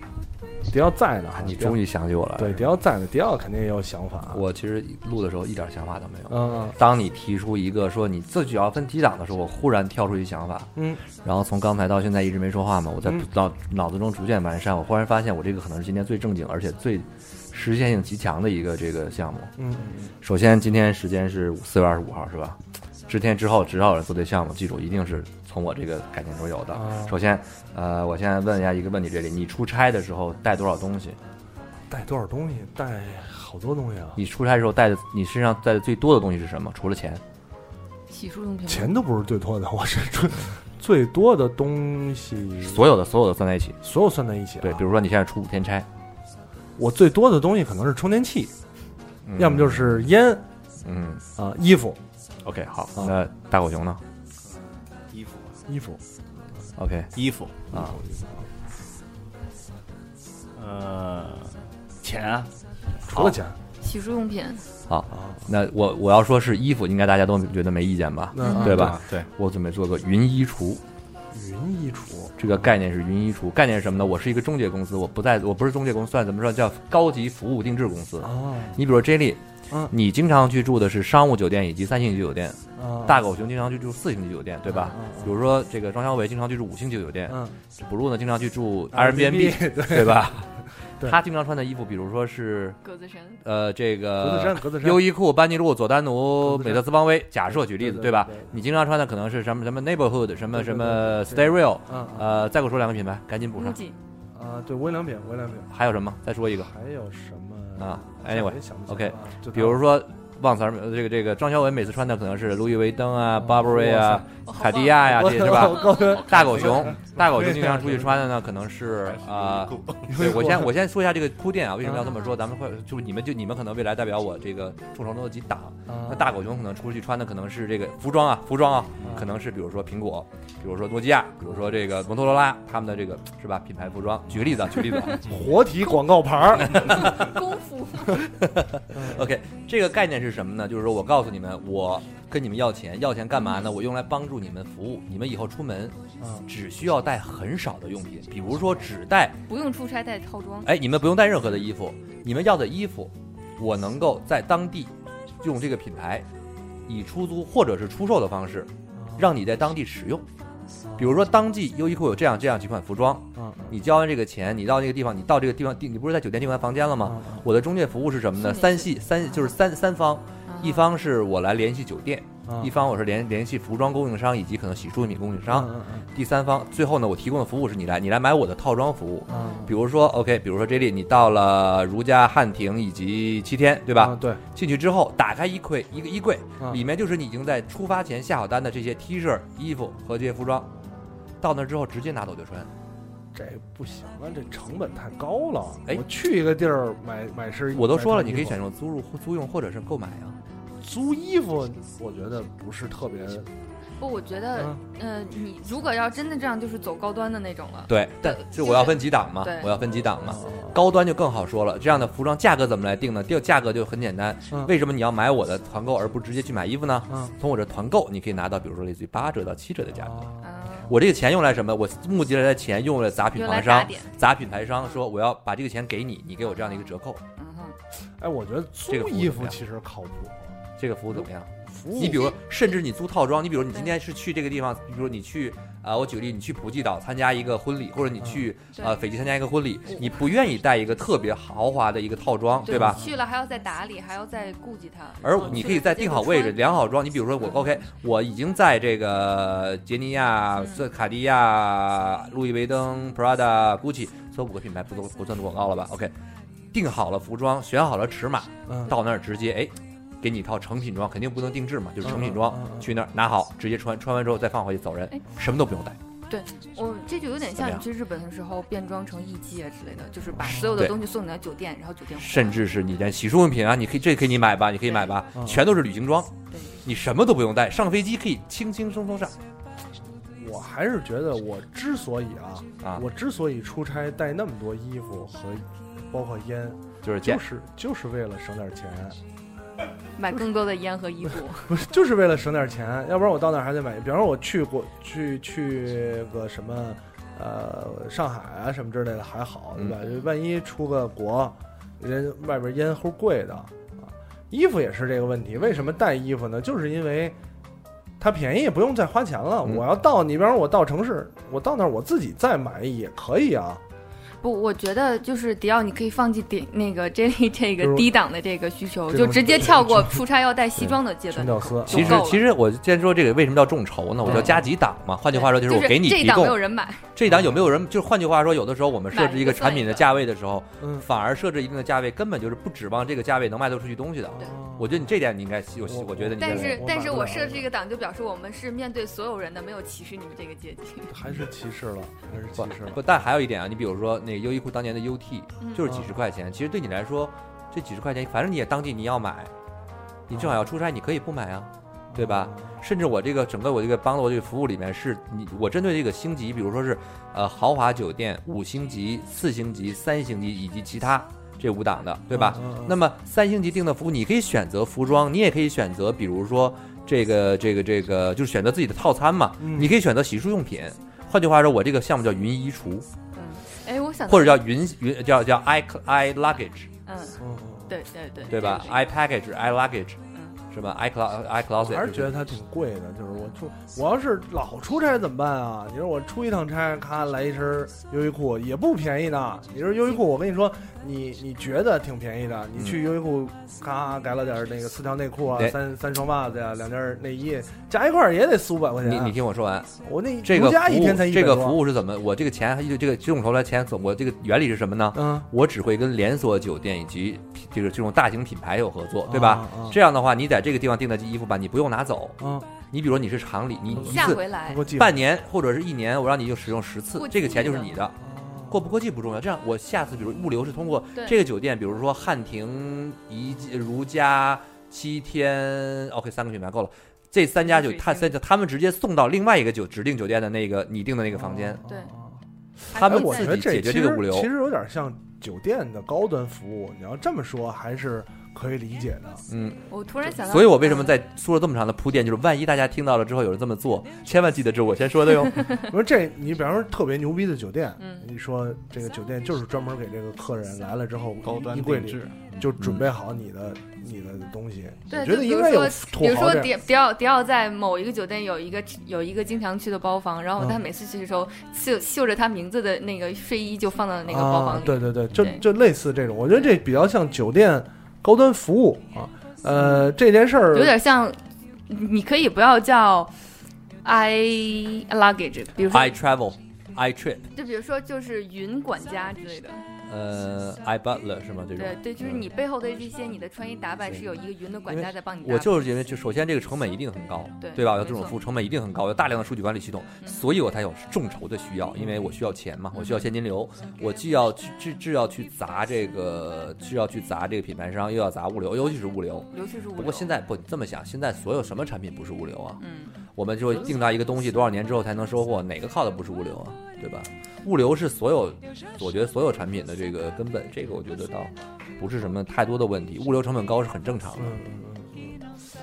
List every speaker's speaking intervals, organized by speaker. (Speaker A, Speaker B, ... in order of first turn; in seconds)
Speaker A: 0.7-1.8, 2.4-4.4, 6.3-6.8, 10.8-11.0, 19.6-20.1, 26.7-27.1, 31.9-34.2, 38.7-42.9, 43.8-44.9, 46.8-48.5, 49.4-50.4, 51.4-52.0, 55.7-56.0, 57.7-58.5, 63.1-63.6, 65.1-65.5, 68.3-69.0, 71.3-72.6, 78.2-78.8, 82.8-83.2, 84.7-85.4, 87.3-87.6, 88.9-90.4, 94.2-95.1, 96.4-96.9, 97.5-98.5, 100.5-102.4, 104.3-105.7, 106.6-109.8, 113.3-114.3, 115.0-118.2, 120.1-120.8, 121.8-122.1, 125.9-126.4, 129.0-129.3, 135.2-137.3, 138.9-139.3, 146.2-146.5, 159.0-159.3, 160.9-161.2, 163.4-163.8, 167.0-167.4, 172.5-172.7, 175.5-176.1, 179.3-179.8, 183.9-184.4, 193.3-198.6, 200.8-203.5, 210.2-210.8, 219.9-220.4, 228.2-230.6, 231.1-232.4, 238.2-238.5, 242.7-243.0, 258.7-258.9, 262.0-262.9, 270.4-270.7, 275.4-275.6, 280.4-289.2, 291.7-307.4, 308.2-313.8, 317.8-318.1, 319.1-320.2, 320.9-322.3, 324.2-324.6, 327.3-327.7, 330.8-331.1, 334.4-335.1, 335.9-337.7, 341.1-343.0, 345.9-346.1, 350.3-350.6, 352.1-352.8, 362.3-363.0, 369.6-369.9, 377.4-377.9, 381.8-399.4, 400.0-401.8, 405.1-405.5, 409.3-410.0, 412.4-412.7, 413.9-415.2, 418.2-418.8, 431.3-432.4, 432.9-439.4, 445.9-456.7, 464.3-471.0, 492.0-492.3, 514.4-515.4
Speaker B: 1.4-2.7, 4.3-19.5, 20.2-31.2, 34.2-37.2, 42.6-43.8, 44.6-45.9, 49.3-50.1, 50.8-51.2, 52.5-54.0, 56.8-57.1, 57.7-58.0, 64.9-70.8, 72.4-90.5, 91.0-92.8, 93.4-103.8, 105.7-106.7, 107.8-135.3, 138.4-149.4, 150.7-156.3, 156.9-160.2, 161.0-190.7, 191.4-192.7, 197.7-200.4, 207.9-220.3, 220.9-227.2, 228.9-229.6, 230.8-243.0, 245.2-256.1, 256.7-266.0, 267.6-267.8, 272.2-276.3, 276.8-279.4, 282.8-283.1, 287.0-287.4, 321.9-326.6, 327.1-337.2, 342.6-349.5, 350.3-373.1, 374.3-376.9, 378.5-380.2, 380.7-382.4, 399.0-399.9, 400.4-418.2, 418.7-431.8, 432.9-434.5, 439.5-445.8, 452.8-453.0, 475.9-477.5, 480.1-482.5, 484.9-502.8, 503.4-514.6
Speaker C: 38.1-39.0, 63.8-64.6, 68.4-68.7, 92.8-93.4, 103.6-104.0, 114.5-115.0, 115.7-116.1, 122.0-122.3, 136.6-138.2, 149.5-150.7, 168.4-168.9, 170.5-170.9, 179.3-179.7, 204.0-209.8, 220.4-220.9, 223.3-224.1, 226.5-227.8, 242.7-246.7, 266.3-272.6, 290.2-291.7, 305.6-306.0, 314.4-322.4, 324.3-324.5, 325.3-327.1, 329.1-330.1, 336.4-341.1, 345.6-345.9, 373.3-374.6, 377.1-379.0, 414.0-414.8, 417.2-417.9, 427.6-428.3, 431.9-432.1, 432.9-433.6, 439.9-441.1, 448.0-448.3, 455.1-465.6, 469.8-470.1, 470.7-471.4, 471.9-473.3, 474.0-476.2, 477.5-479.8, 481.8-485.8, 487.6-488.4, 492.9-493.3, 499.5-500.3, 502.8-503.1
Speaker D: 55.1-55.6, 57.2-57.5, 68.7-69.3, 119.1-120.2, 451.4-452.5
Speaker E: 60.6-62.5